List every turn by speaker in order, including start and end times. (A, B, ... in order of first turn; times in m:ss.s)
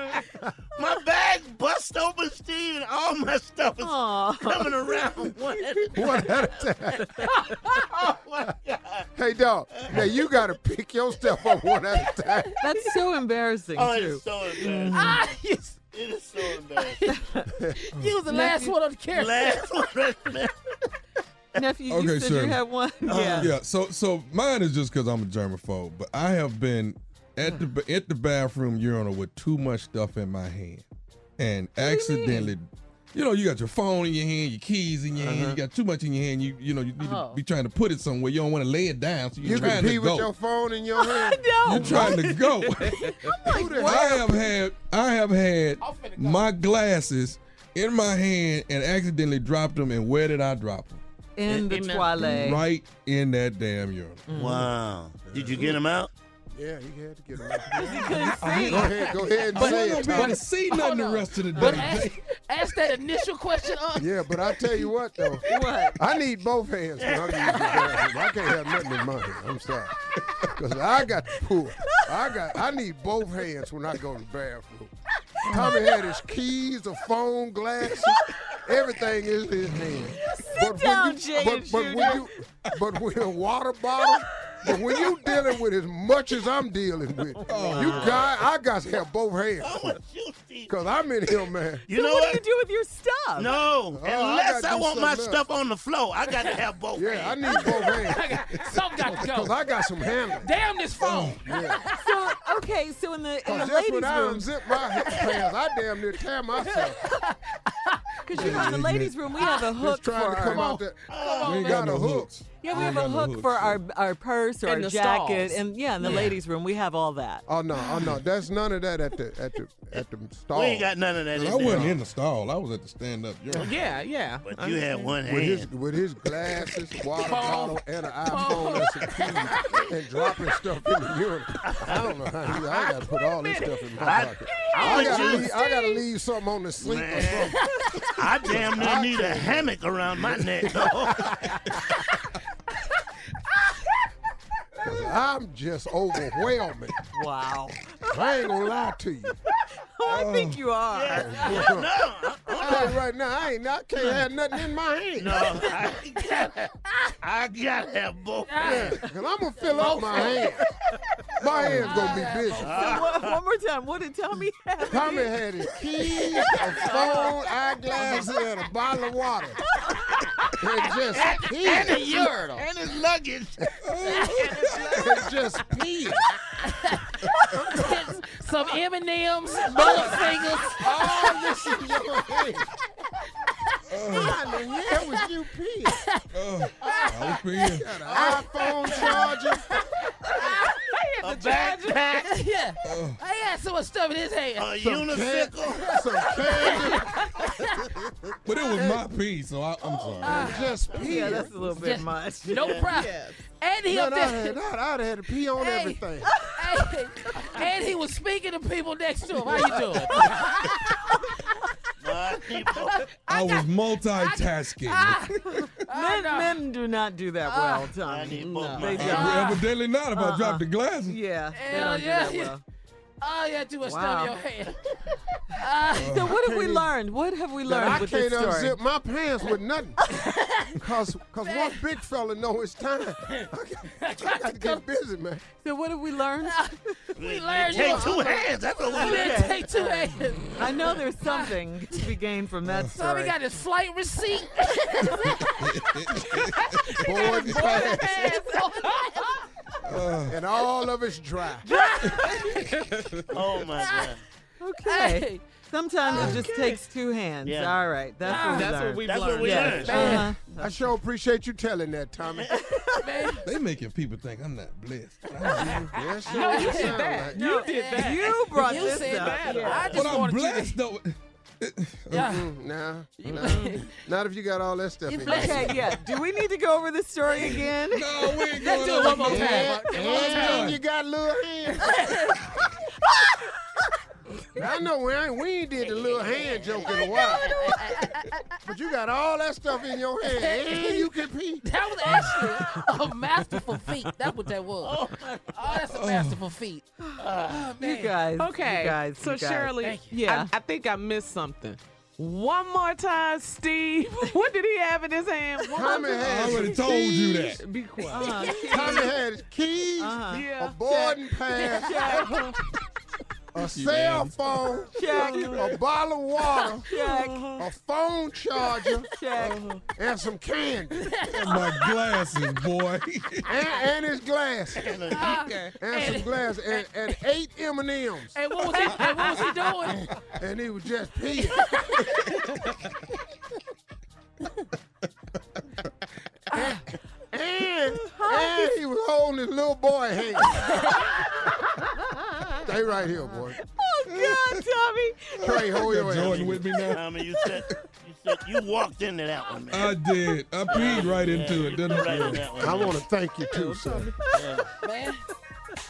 0:00.7-0:06.5 A
0:03.8-0:04.8 B
0:05.9-0:07.1 C
0:08.0-0:09.0 A
0:09.2-0:12.5 C
0:12.6-0:14.2 B
0:13.8-0:15.3 A
0:14.6-0:15.8 D
0:15.9-0:17.0 A
0:16.5-0:19.8 D
0:17.6-0:17.8 C
0:18.3-0:18.7 B
0:19.1-0:20.5 A
0:21.5-0:23.5 B
0:21.9-0:22.6 E
0:23.1-0:23.5 A
0:23.1-0:30.8 E
0:31.4-0:40.3 E
0:31.8-0:32.5 B
0:35.1-0:35.6 C
0:37.0-0:37.4 D
0:39.4-0:42.1 C
0:41.0-0:44.4 B
0:41.6-0:51.0 E
0:43.4-0:44.4 C
0:45.8-0:46.5 D
0:51.4-0:52.6 B
0:51.7-0:52.4 F
0:52.2-0:54.2 E
0:54.3-0:54.7 B
0:54.3-0:56.1 A
0:55.3-0:55.8 C
0:56.5-1:00.4 C
0:57.7-0:59.2 B
0:58.1-1:02.2 E
0:59.5-1:04.8 D
1:04.0-1:14.9 C
1:05.5-1:06.0 B
1:07.0-1:08.1 A
1:15.4-1:30.0 C
1:15.5-1:15.7 B
1:20.2-1:22.3 B
1:24.7-1:25.1 B
1:27.3-1:28.2 B
1:27.5-1:28.2 E
1:28.0-1:28.3 A
1:29.6-1:30.8 A
1:30.7-1:31.8 C
1:31.8-1:32.4 A
1:31.9-1:33.5 B
1:33.4-1:38.0 A
1:33.9-1:35.4 C
1:36.9-1:38.4 C
1:37.5-1:39.6 D
1:39.0-1:40.5 C
1:40.4-1:42.1 D
1:41.0-1:41.4 E
1:41.4-1:41.8 C
1:42.0-1:44.5 B
1:43.4-1:47.0 C
1:46.7-1:48.0 D
1:48.2-1:50.8 B
1:48.3-1:49.3 E
1:48.4-1:48.8 C
1:49.4-1:49.7 D
1:49.7-1:51.0 C
1:50.5-1:52.0 D
1:51.1-1:51.8 A
1:51.4-1:53.8 E
1:51.6-1:52.3 C
1:52.6-1:57.4 B
1:54.6-1:56.3 F
1:57.5-2:00.9 C
2:00.5-2:01.9 A
2:01.4-2:03.7 E
2:01.5-2:02.0 C
2:03.5-2:03.9 A
2:03.6-2:05.2 F
2:04.4-2:05.7 A
2:05.2-2:17.6 C
2:07.1-2:09.6 D
2:11.6-2:12.7 A
2:12.6-2:13.7 D
2:14.0-2:15.5 A
2:14.5-2:15.2 D
2:16.8-2:21.6 A
2:17.4-2:18.0 D
2:18.5-2:21.8 C
2:24.8-2:26.9 C
2:27.1-2:28.2 B
2:28.1-2:29.4 C
2:29.9-2:31.6 B
2:30.1-2:30.6 E
2:30.9-2:33.0 A
2:31.1-2:31.9 C
2:32.5-2:35.6 C
2:35.2-2:39.0 A
2:38.5-2:38.9 D
2:38.6-2:40.6 C
2:39.7-2:40.6 D
2:41.4-2:42.9 C
2:41.4-2:42.1 B
2:41.8-2:42.9 D
2:42.6-2:43.4 A
2:42.7-2:45.4 B
2:44.8-2:49.6 C
2:46.6-2:47.4 D
2:48.0-2:48.2 D
2:50.6-2:52.3 C
2:51.1-2:51.4 A
2:51.5-2:52.7 D
2:52.6-2:53.6 A
2:53.8-2:55.0 E
2:54.0-2:54.9 D
2:54.8-2:56.3 C
2:56.6-3:01.5 D
2:57.5-2:58.0 C
2:59.7-3:02.7 C
3:03.9-3:04.4 E
3:04.0-3:06.0 C
3:05.9-3:06.2 D
3:06.3-3:07.9 E
3:06.8-3:07.4 D
3:07.6-3:09.7 C
3:08.0-3:09.3 A
3:08.4-3:09.2 D
3:10.4-3:10.9 D
3:11.2-3:12.2 A
3:11.2-3:12.1 F
3:11.5-3:14.8 D
3:12.8-3:13.2 E
3:14.6-3:16.0 A
3:14.8-3:17.3 C
3:15.7-3:17.9 D
3:18.4-3:20.5 E
3:18.7-3:19.1 C
3:20.2-3:20.8 D
3:20.2-3:21.5 C
3:20.4-3:21.4 A
3:20.9-3:23.1 B
3:21.6-3:24.6 D
3:22.5-3:22.9 A
3:22.9-3:23.3 F
3:23.9-3:26.4 C
3:25.6-3:26.0 D
3:26.5-3:31.0 D
3:32.0-3:33.0 A
3:32.8-3:36.6 D
3:33.3-3:35.4 E
3:35.5-3:42.6 B
3:37.4-3:37.9 D
3:38.1-3:39.4 A
3:38.9-3:41.2 E
3:39.0-3:39.5 D
3:41.5-3:42.6 D
3:43.2-3:45.0 D
3:43.8-3:44.4 B
3:45.5-3:46.2 D
3:46.0-3:46.3 E
3:46.0-3:48.8 B
3:46.3-3:46.9 C
3:47.6-3:50.0 C
3:50.3-3:50.8 D
3:50.7-3:55.4 C
3:51.4-3:51.8 D
3:53.3-3:54.8 D
3:55.6-3:56.9 B
3:56.4-4:02.0 D
3:57.2-3:59.5 A
3:57.6-3:58.4 B
3:58.9-4:03.4 B
4:02.6-4:02.9 E
4:02.9-4:09.4 D
4:05.4-4:07.2 E
4:07.0-4:08.4 C
4:09.8-4:10.4 E
4:10.2-4:11.7 C
4:11.6-4:12.7 D
4:12.6-4:12.9 F
4:13.3-4:14.2 A
4:13.8-4:14.1 D
4:14.6-4:20.4 B
4:14.8-4:15.4 D
4:16.2-4:16.4 E
4:16.5-4:16.8 F
4:17.4-4:17.7 A
4:18.2-4:18.8 D
4:18.3-4:20.3 F
4:19.0-4:20.3 A
4:19.7-4:20.3 D
4:20.6-4:22.7 C
4:23.0-4:23.4 D
4:23.4-4:25.9 E
4:25.6-4:27.4 C
4:25.7-4:30.8 D
4:26.3-4:30.0 F
4:26.3-4:26.8 B
4:27.3-4:29.9 B
4:29.9-4:32.4 E
4:32.1-4:32.5 D
4:32.1-4:35.8 C
4:33.2-4:33.9 D
4:33.3-4:33.7 F
4:35.1-4:35.9 D
4:35.2-4:38.1 B
4:37.3-4:37.6 D
4:37.4-4:40.8 E
4:38.3-4:40.8 D
4:39.2-4:42.1 C
4:41.8-4:42.4 D
4:44.5-4:47.6 C
4:46.5-4:48.4 D
4:48.6-4:51.6 C
4:50.2-4:51.1 D
4:51.6-4:58.2 D
4:54.8-4:55.4 A
4:55.9-4:56.4 E
4:57.8-5:00.5 B
4:58.4-5:09.0 F
4:59.8-5:00.1 D
5:05.7-5:07.4 C
5:06.2-5:07.6 E
5:08.1-5:09.1 B
5:08.6-5:12.4 C
5:10.0-5:11.1 B
5:10.3-5:10.9 F
5:11.7-5:12.4 B
5:11.8-5:12.3 D
5:13.5-5:16.9 C
5:13.6-5:14.4 E
5:14.9-5:15.7 B
5:15.2-5:15.7 F
5:16.9-5:17.6 B
5:16.9-5:17.5 F
5:17.6-5:19.1 C
5:19.1-5:19.6 B
5:19.4-5:19.8 F
5:20.0-5:21.1 C
5:20.9-5:22.2 D
5:21.3-5:23.5 E
5:23.4-5:25.0 C
5:24.8-5:25.5 A
5:25.0-5:27.1 D
5:25.8-5:28.4 C
5:28.3-5:30.1 D
5:30.4-5:31.9 C
5:36.5-5:41.2 C
5:38.1-5:38.6 B
5:42.5-5:43.6 C
5:43.7-5:45.7 B
5:44.1-5:44.5 E
5:45.4-5:46.7 C
5:45.4-5:47.6 E
5:46.9-5:50.0 A
5:49.7-5:52.4 E
5:50.7-5:53.0 A
5:52.0-5:54.1 C
5:53.5-5:54.3 F
5:54.3-5:54.7 A
5:54.7-5:55.2 D